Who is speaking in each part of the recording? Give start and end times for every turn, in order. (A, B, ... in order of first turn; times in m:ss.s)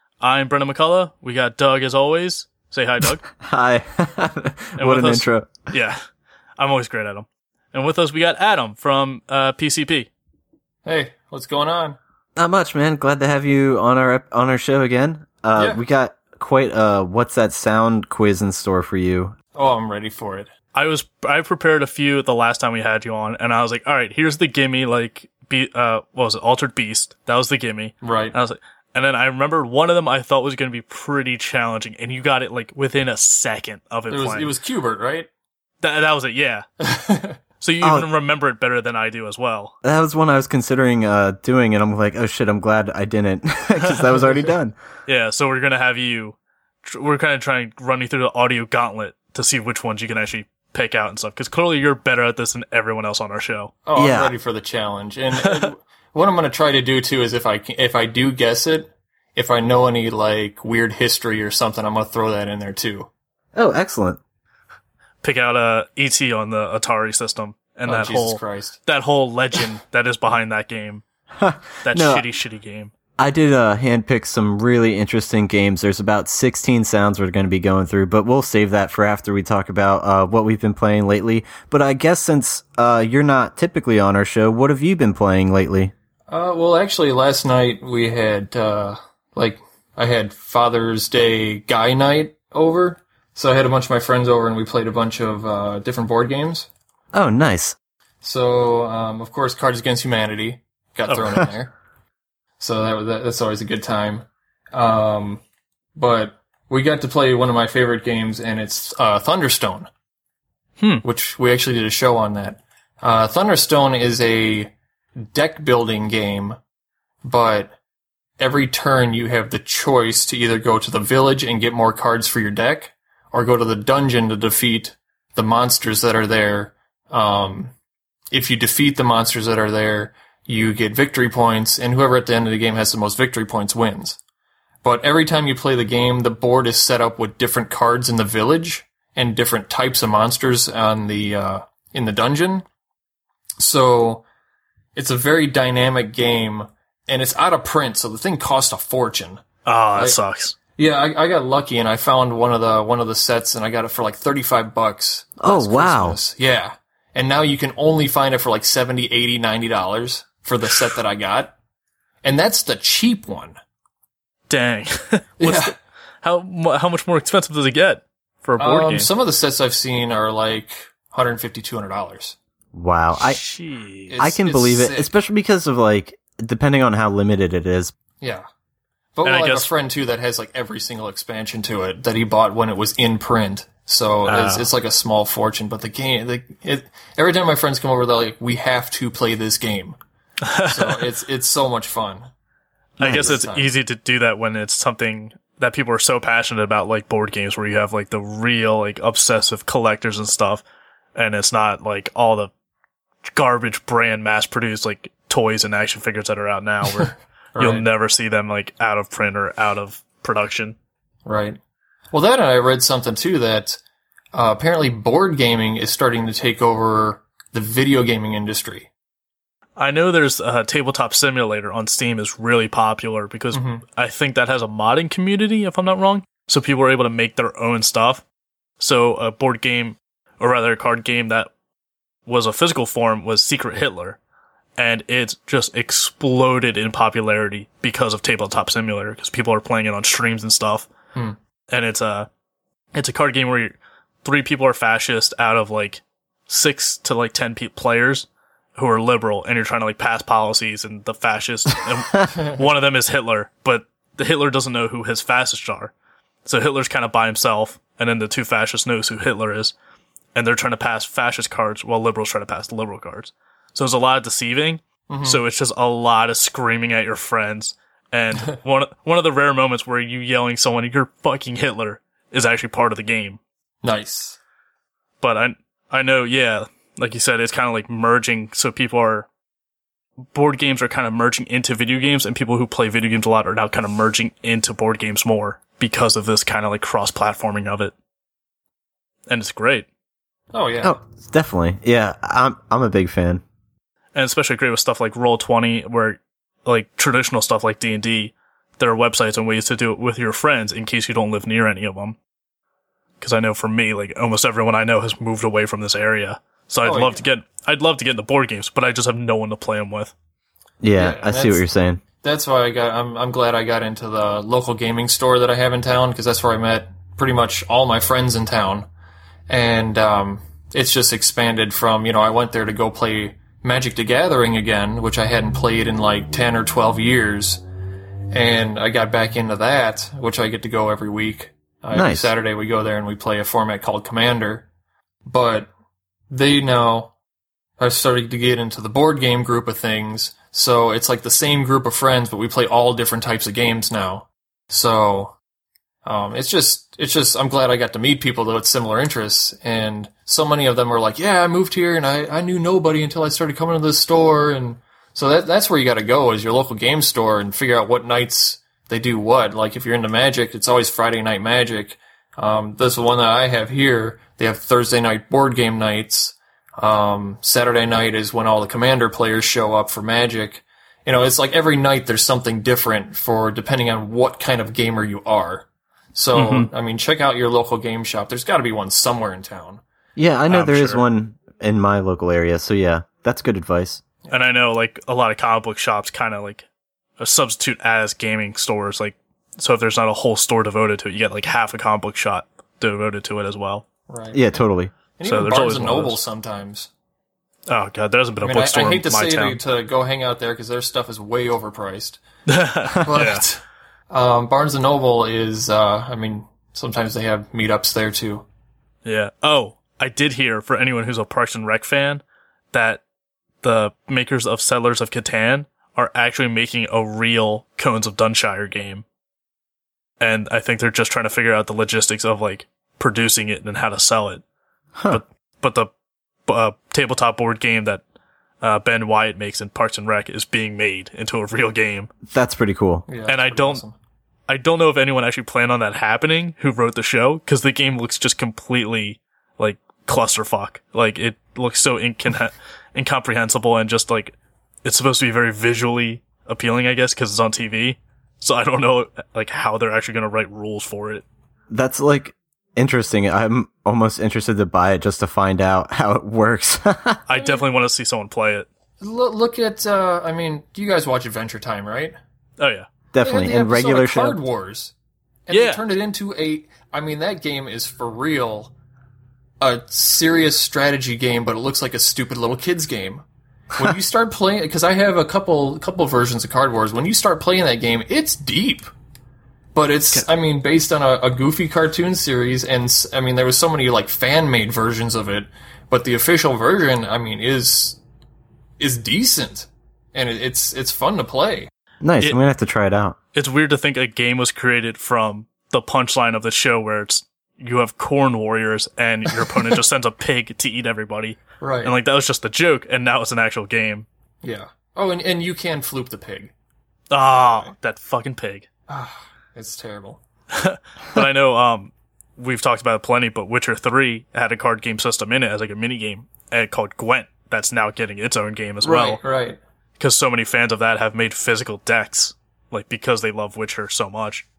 0:00.2-0:03.2 A
0:03.4-0:05.7 B
0:04.8-0:06.0 A
0:06.6-0:10.1 A
0:10.8-0:12.0 C
0:12.3-0:19.3 B
0:19.5-0:20.5 C
0:20.7-0:34.5 A
0:28.0-0:28.3 C
0:34.1-0:35.3 C
0:35.8-0:36.6 A
0:36.8-0:37.4 C
0:37.6-0:39.7 A
0:37.8-0:38.1 B
0:39.8-0:44.7 B
0:45.1-0:53.7 A
0:53.8-1:03.1 C
0:54.0-0:54.3 B
0:55.4-0:55.7 A
1:03.5-1:04.2 B
1:05.2-1:11.0 A
1:07.8-1:08.8 C
1:11.4-1:12.2 B
1:11.8-1:12.9 A
1:13.2-1:25.9 B
1:26.3-1:36.7 C
1:37.1-1:37.8 B
1:38.2-1:41.7 C
1:42.6-1:45.4 C
1:46.0-1:49.9 C
1:50.8-1:51.0 A
1:51.0-1:56.6 C
1:57.2-1:57.7 C
1:58.4-2:07.7 C
2:08.3-2:14.2 C
2:14.8-2:22.6 C
2:23.6-2:24.2 C
2:25.0-2:29.4 C
2:29.7-2:30.6 A
2:30.8-2:41.5 C
2:35.4-2:36.2 B
2:40.7-2:40.9 A
2:42.2-2:43.6 C
2:44.5-2:49.1 A
2:45.4-2:45.7 C
2:48.6-2:52.4 C
2:52.7-2:53.4 B
2:53.2-2:54.2 A
2:54.1-2:55.1 C
2:54.2-2:57.9 B
2:59.2-3:10.0 C
2:59.2-2:59.7 A
3:04.2-3:04.7 A
3:10.4-3:11.0 A
3:10.7-3:12.3 C
3:13.0-3:13.7 C
3:13.0-3:20.6 A
3:21.2-3:22.5 A
3:23.3-3:30.8 A
3:27.6-3:27.9 C
3:31.2-3:31.6 C
3:32.1-3:33.8 C
3:34.3-3:38.9 C
3:39.8-3:48.2 A
3:43.5-3:43.8 C
3:48.8-3:51.5 A
3:52.3-3:54.2 A
3:54.8-4:00.9 A
4:01.7-4:02.3 A
4:02.9-4:15.9 A
4:16.4-4:19.7 A
4:20.4-4:33.4 A
4:25.1-4:25.4 C
4:33.8-4:34.4 C
4:35.2-4:39.3 A
4:40.3-4:47.9 A
4:49.3-4:49.9 A
4:50.5-4:51.0 C
4:50.8-4:53.4 B
4:54.1-5:02.2 A
5:03.2-5:10.1 A
5:06.8-5:07.2 C
5:10.8-5:12.0 B
5:11.0-5:11.6 C
5:12.2-5:18.9 C
5:19.5-5:27.6 C
5:28.3-5:34.7 C
5:31.9-5:32.3 B
5:35.2-5:35.7 C
5:36.3-5:37.1 C
5:37.8-5:45.4 C
5:46.0-6:19.8 C
6:16.3-6:16.7 A
6:20.2-6:24.0 B
6:20.5-6:21.1 A
6:24.3-6:26.7 A
6:27.2-6:33.8 A
6:34.1-6:34.5 C
6:34.3-6:34.9 B
6:35.1-6:36.9 C
6:35.2-6:36.2 A
6:37.7-6:39.6 A
6:38.4-6:42.2 C
6:42.5-6:43.4 A
6:43.0-6:48.4 C
6:49.0-6:53.0 A
6:53.6-6:59.0 A
7:00.2-7:04.4 A
7:05.0-7:05.2 B
7:05.1-7:05.9 A
7:06.5-7:08.0 A
7:08.6-7:12.1 A
7:12.2-7:13.0 B
7:13.1-7:13.9 C
7:13.3-7:13.8 A
7:14.5-7:31.2 A
7:31.7-7:37.2 B
7:37.3-7:38.7 A
7:39.0-7:42.2 C
7:42.6-7:42.9 A
7:43.1-7:44.4 B
7:43.2-7:44.9 C
7:45.5-7:48.7 C
7:45.5-7:45.8 A
7:49.6-7:53.2 C
7:53.8-7:58.9 C
7:59.8-8:08.0 C
8:08.8-8:11.7 C
8:12.0-8:13.2 B
8:13.4-8:24.1 A
8:21.6-8:22.0 C
8:24.4-8:26.5 C
8:27.1-8:28.6 A
8:27.4-8:27.7 C
8:28.9-8:30.2 C
8:30.5-8:39.2 A
8:38.8-8:39.6 C
8:40.0-8:44.4 A